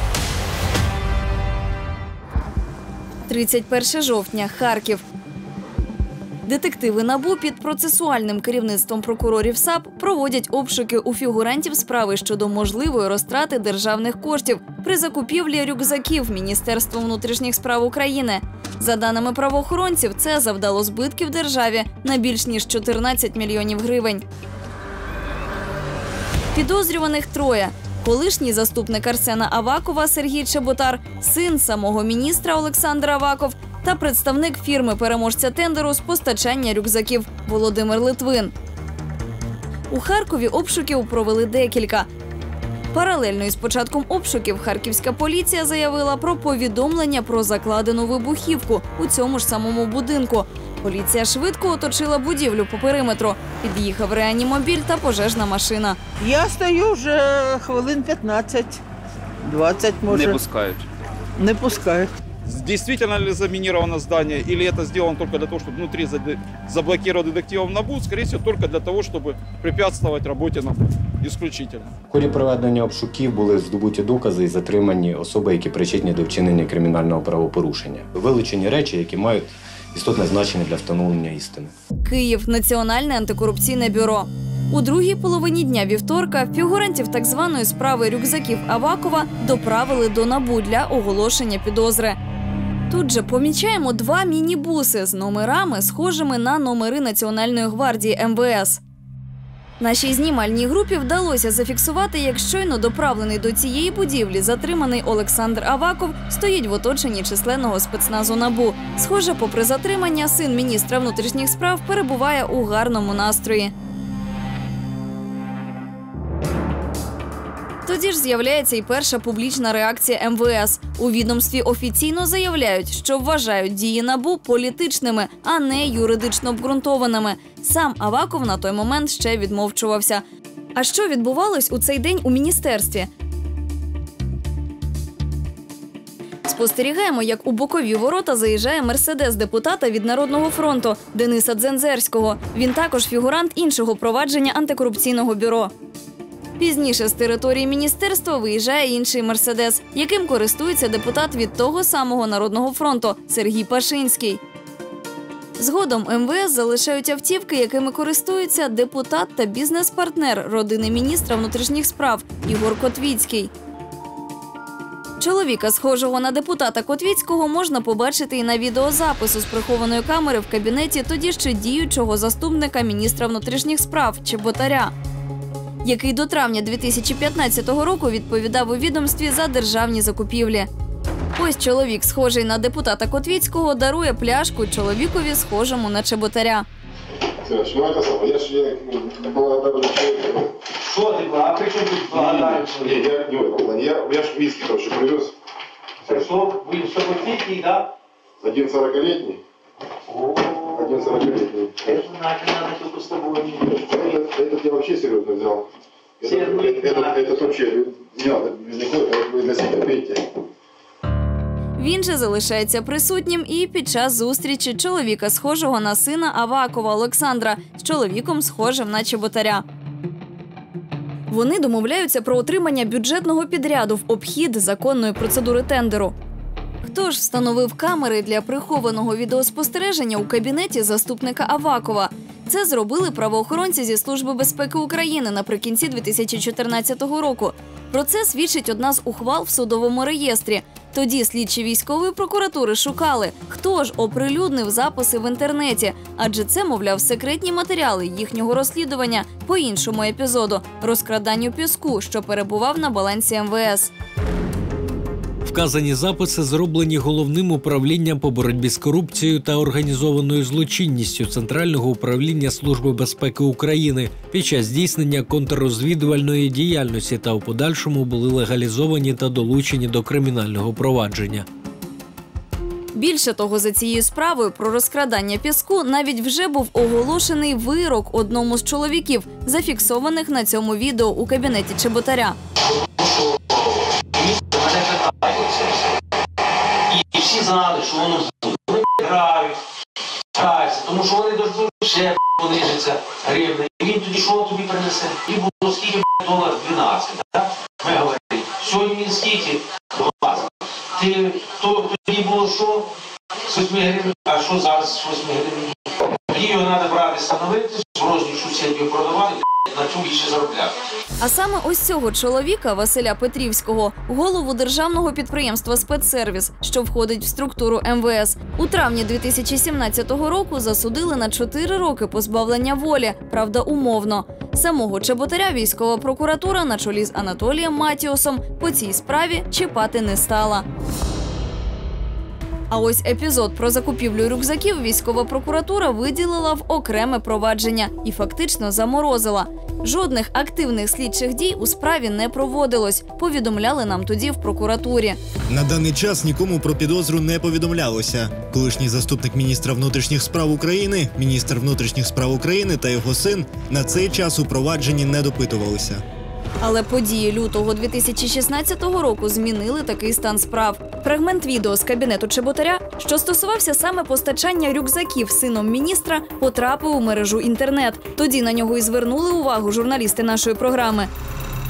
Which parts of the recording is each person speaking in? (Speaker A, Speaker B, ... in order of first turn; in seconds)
Speaker A: 3.3-5.0, 6.5-24.2, 26.5-38.5, 39.9-42.1, 42.9-56.0, 82.0-92.2, 92.9-98.8, 99.8-113.7, 117.8-130.2, 130.8-133.1, 136.4-145.7, 146.6-154.4, 155.6-163.5, 165.2-174.9, 175.8-180.7, 181.3-186.7, 211.8-219.6, 221.3-226.1, 226.8-253.9, 272.9-282.4, 311.2-330.6, 332.7-345.2, 356.6-371.1
Speaker B: 56.2-58.8, 59.4-60.4, 61.4-62.1
Speaker C: 60.1-60.8, 62.5-71.9
Speaker D: 72.1-81.7
Speaker E: 187.4-190.5, 192.1-195.3, 198.4-199.4, 200.7-202.0, 203.6-205.7, 206.2-210.2
Speaker F: 190.8-193.0, 196.1-197.9, 200.1-203.7, 206.2-207.4, 284.1-285.8, 286.9-289.6, 290.3-302.9, 303.5-305.7, 306.3-310.8
Speaker G: 255.4-271.5
Speaker H: 345.5-356.0